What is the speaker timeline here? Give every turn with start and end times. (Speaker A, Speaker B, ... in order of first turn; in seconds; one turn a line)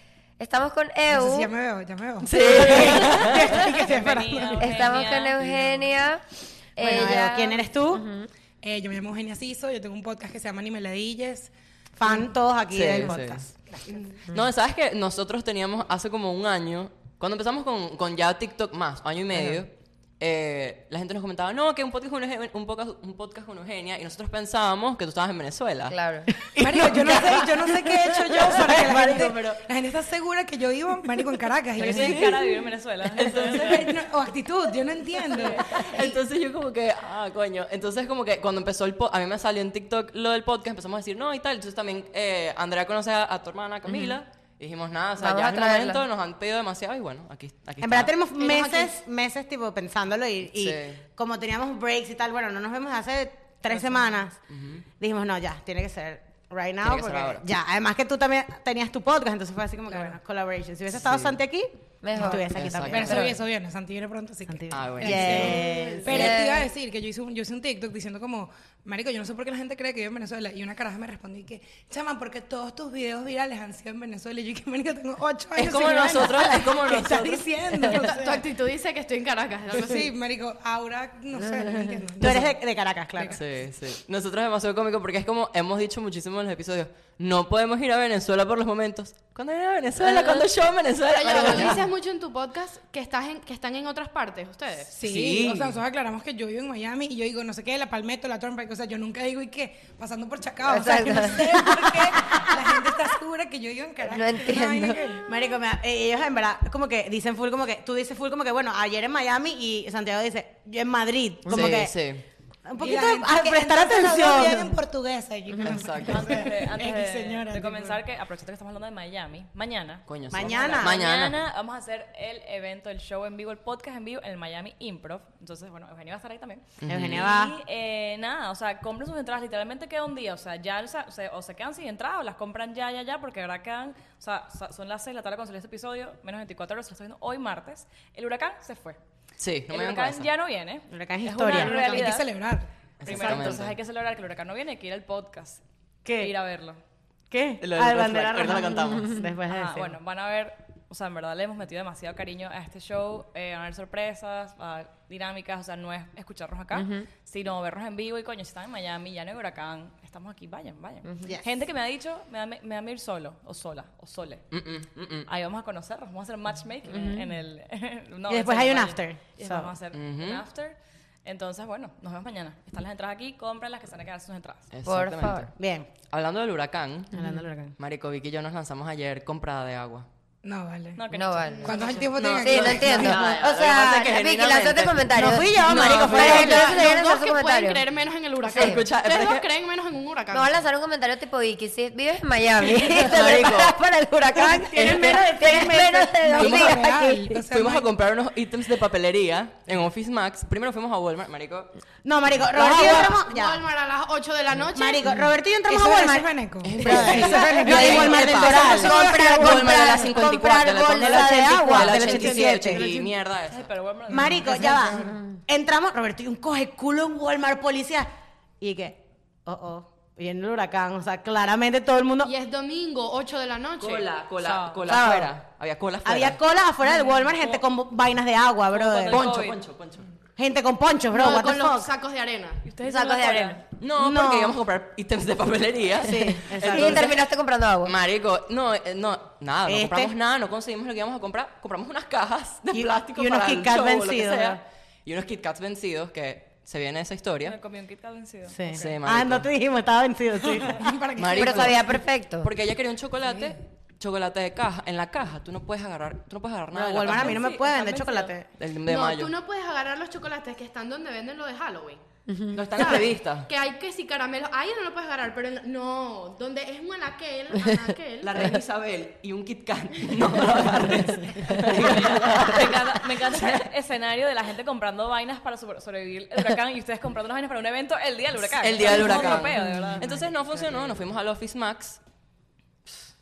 Speaker A: 0.4-1.5
Speaker B: 1.1-4.8
Speaker C: 2.2-3.5
Speaker D: 2.4-3.6
Speaker E: 3.7-6.0
Speaker A: 4.6-6.2
Speaker A: 6.8-8.3
Speaker D: 6.8-8.0
Speaker B: 8.6-11.5
Speaker D: 12.0-13.7
Speaker C: 12.7-13.4
Speaker C: 14.3-29.6
Speaker A: 25.9-26.3
Speaker B: 26.6-32.4
Speaker E: 31.8-33.9
Speaker C: 31.8-32.4
Speaker C: 33.2-33.9
Speaker B: 33.4-36.1
Speaker C: 35.4-48.1
Speaker A: 43.9-44.1
Speaker A: 45.2-46.0
Speaker D: 47.8-54.4
Speaker F: 48.4-48.9
Speaker C: 50.5-51.0
Speaker C: 54.5-54.9
Speaker D: 55.0-63.3
Speaker C: 56.8-57.5
Speaker C: 60.9-61.4
Speaker A: 62.0-62.5
Speaker B: 62.1-78.5
Speaker C: 62.5-63.4
Speaker D: 64.5-66.3
Speaker C: 64.7-65.8
Speaker A: 65.0-66.7
Speaker C: 75.6-78.1
Speaker F: 78.1-80.1
Speaker B: 79.7-82.6
Speaker D: 82.2-83.4
Speaker C: 83.3-91.9
Speaker F: 91.1-94.9
Speaker B: 94.9-105.3
Speaker C: 95.0-95.8
Speaker A: 100.7-101.7
Speaker A: 104.1-105.0
Speaker D: 105.2-112.0
Speaker C: 111.5-112.2
Speaker D: 112.7-114.8
Speaker B: 112.8-118.0
Speaker C: 115.6-116.4
Speaker E: 116.0-139.0
Speaker C: 120.1-121.4
Speaker D: 120.3-121.0
Speaker C: 126.8-127.3
Speaker D: 126.9-127.5
Speaker C: 139.4-140.3
Speaker E: 139.7-142.3
Speaker D: 140.9-142.1
Speaker B: 141.4-142.7
Speaker C: 143.0-143.8
Speaker E: 143.0-145.6
Speaker D: 143.0-143.6
Speaker D: 146.1-146.3
Speaker E: 146.2-146.8
Speaker D: 147.3-150.0
Speaker C: 147.6-149.2
Speaker E: 149.5-164.5
Speaker A: 156.8-157.1
Speaker C: 164.5-165.3
Speaker E: 165.3-174.7
Speaker A: 166.9-167.3
Speaker D: 168.3-169.7
Speaker C: 169.9-170.4
Speaker C: 174.7-175.6
Speaker A: 174.8-175.5
Speaker D: 175.6-175.9
Speaker C: 176.1-177.3
Speaker D: 177.1-177.8
Speaker C: 177.8-180.1
Speaker B: 180.4-181.0
Speaker E: 181.0-182.1
Speaker A: 181.1-181.8
Speaker F: 181.5-182.0
Speaker B: 181.6-183.4
Speaker C: 182.1-187.0
Speaker A: 182.3-187.8
Speaker D: 185.1-186.8
Speaker F: 186.5-190.6
Speaker A: 188.5-188.8
Speaker C: 188.5-189.5
Speaker A: 190.3-197.3
Speaker C: 193.0-193.8
Speaker D: 194.3-196.2
Speaker B: 196.2-197.9
Speaker C: 196.4-201.7
Speaker D: 202.0-203.6
Speaker F: 202.7-205.1
Speaker C: 202.7-203.1
Speaker D: 204.7-208.9
Speaker B: 205.7-209.8
Speaker C: 206.6-213.7
Speaker A: 208.5-212.5
Speaker D: 211.1-212.9
Speaker F: 212.7-213.1
Speaker E: 213.5-214.8
Speaker D: 214.1-222.3
Speaker B: 214.2-215.2
Speaker F: 222.2-224.1
Speaker C: 223.8-226.4
Speaker E: 224.4-224.9
Speaker A: 224.8-225.3
Speaker D: 226.1-229.2
Speaker E: 227.3-227.6
Speaker E: 228.7-229.6
Speaker C: 229.1-230.1
Speaker D: 230.4-231.9
Speaker F: 231.1-233.6
Speaker E: 232.7-233.6
Speaker A: 232.9-233.6
Speaker C: 233.8-237.1
Speaker D: 233.9-234.6
Speaker D: 236.0-237.2
Speaker A: 236.6-237.9
Speaker C: 237.8-247.6
Speaker D: 239.7-240.1
Speaker D: 242.7-244.6
Speaker E: 247.4-248.8
Speaker D: 248.5-251.1
Speaker C: 248.7-249.5
Speaker B: 250.4-251.9
Speaker C: 251.2-257.4
Speaker A: 251.3-252.5
Speaker D: 256.7-258.5
Speaker E: 257.1-258.3
Speaker C: 258.6-259.3
Speaker F: 258.9-262.0
Speaker C: 262.5-263.5
Speaker F: 262.8-268.5
Speaker C: 268.2-273.6
Speaker E: 271.7-280.1
Speaker C: 278.6-282.0